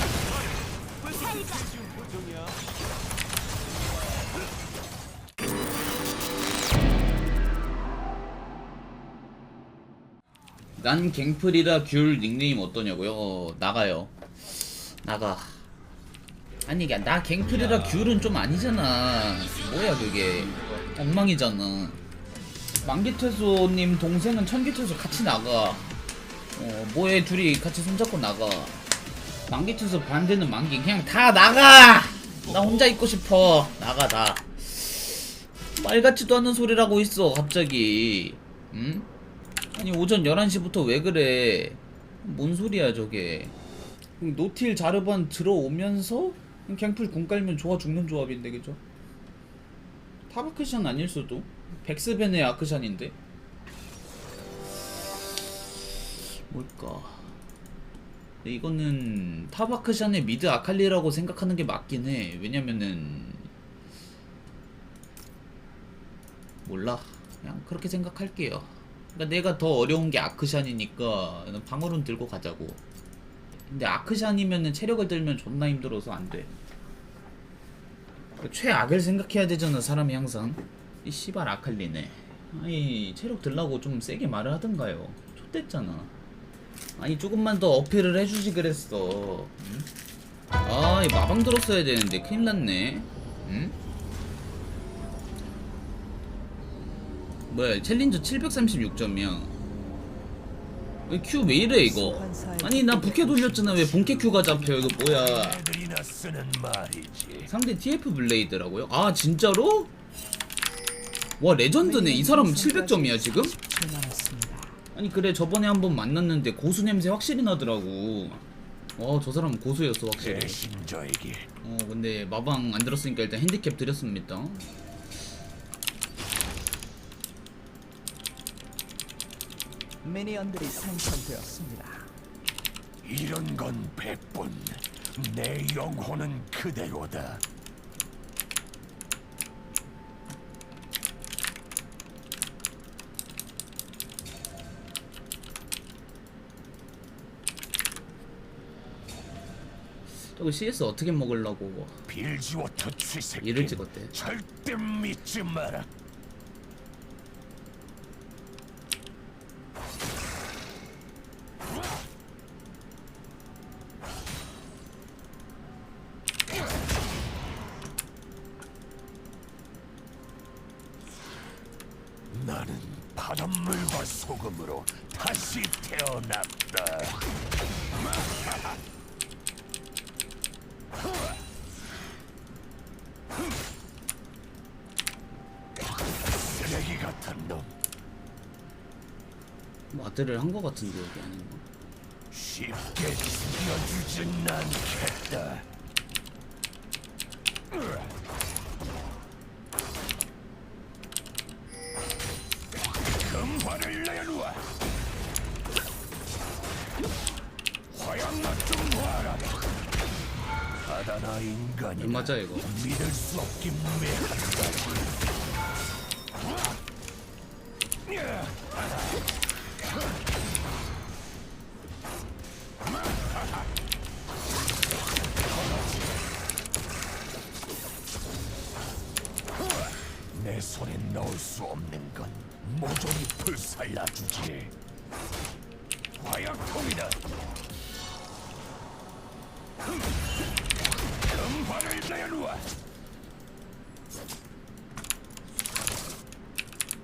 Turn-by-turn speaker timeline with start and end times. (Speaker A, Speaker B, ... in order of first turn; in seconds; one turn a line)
Speaker A: 10.8-15.6
Speaker A: 16.7-22.0
Speaker A: 22.8-25.9
Speaker A: 26.6-28.8
Speaker A: 29.5-39.1
Speaker A: 39.7-43.5
Speaker A: 44.2-48.8
Speaker A: 50.3-53.1
Speaker A: 56.3-57.3
Speaker A: 58.4-63.5
Speaker A: 66.6-72.8
Speaker A: 73.7-76.5
Speaker A: 78.4-86.1
Speaker A: 87.0-89.9
Speaker A: 90.6-93.8
Speaker A: 97.5-99.5
Speaker A: 101.1-105.6
Speaker B: 101.6-105.1
Speaker C: 104.9-107.5
Speaker A: 107.5-109.9
Speaker A: 111.4-113.5
Speaker B: 111.7-114.8
Speaker A: 114.9-118.4
Speaker A: 119.0-120.6
Speaker C: 120.2-121.5
Speaker A: 121.6-124.6
Speaker B: 130.0-132.1
Speaker C: 133.0-137.4
Speaker A: 150.2-152.0
Speaker C: 152.1-155.9
Speaker A: 153.4-154.1
Speaker C: 172.3-177.2
Speaker C: 186.3-187.8
Speaker A: 189.9-191.6
Speaker C: 192.3-195.7
Speaker C: 197.7-198.1
Speaker C: 203.2-204.7
Speaker C: 207.9-209.6
Speaker C: 210.8-215.1
Speaker A: 212.0-212.7
Speaker C: 218.1-218.8
Speaker C: 225.4-226.2
Speaker C: 230.3-234.7
Speaker C: 236.2-237.2
Speaker C: 241.2-242.7